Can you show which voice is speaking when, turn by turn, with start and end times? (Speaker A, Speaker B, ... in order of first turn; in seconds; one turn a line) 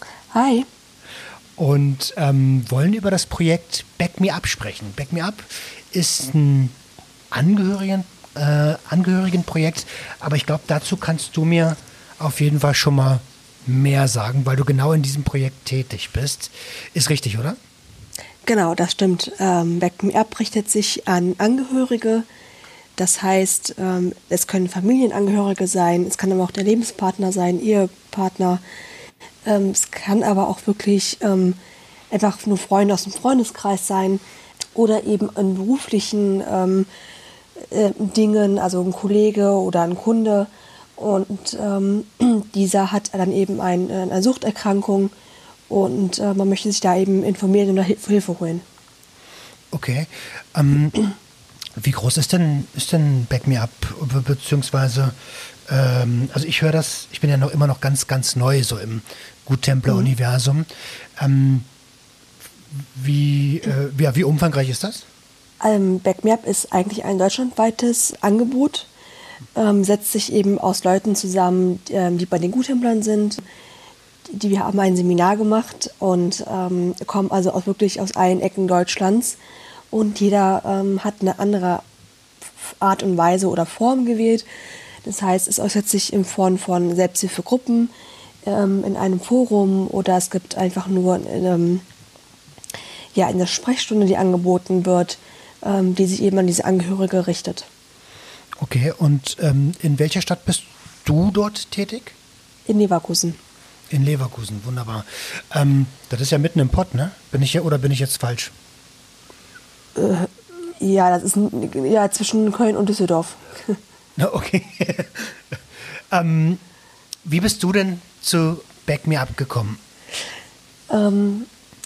Speaker A: 0.3-0.7
Speaker B: 1.6-6.7
Speaker B: 7.3-17.6
Speaker A: 18.4-22.2
Speaker A: 23.0-28.6
Speaker A: 29.4-31.6
Speaker A: 32.1-34.2
Speaker A: 34.7-36.9
Speaker A: 37.6-45.1
Speaker A: 45.7-48.6
Speaker B: 49.7-51.0
Speaker B: 51.8-61.7
Speaker B: 62.7-65.0
Speaker A: 65.6-68.9
Speaker A: 69.5-73.4
Speaker A: 74.3-79.4
Speaker A: 79.9-81.8
Speaker A: 82.6-84.5
Speaker A: 85.0-87.9
Speaker A: 88.5-91.8
Speaker A: 93.1-97.7
Speaker B: 98.6-102.2
Speaker A: 102.7-103.4
Speaker B: 103.9-108.5
Speaker A: 110.0-113.8
Speaker B: 114.2-116.6
Speaker B: 117.2-119.8
Speaker A: 120.9-121.5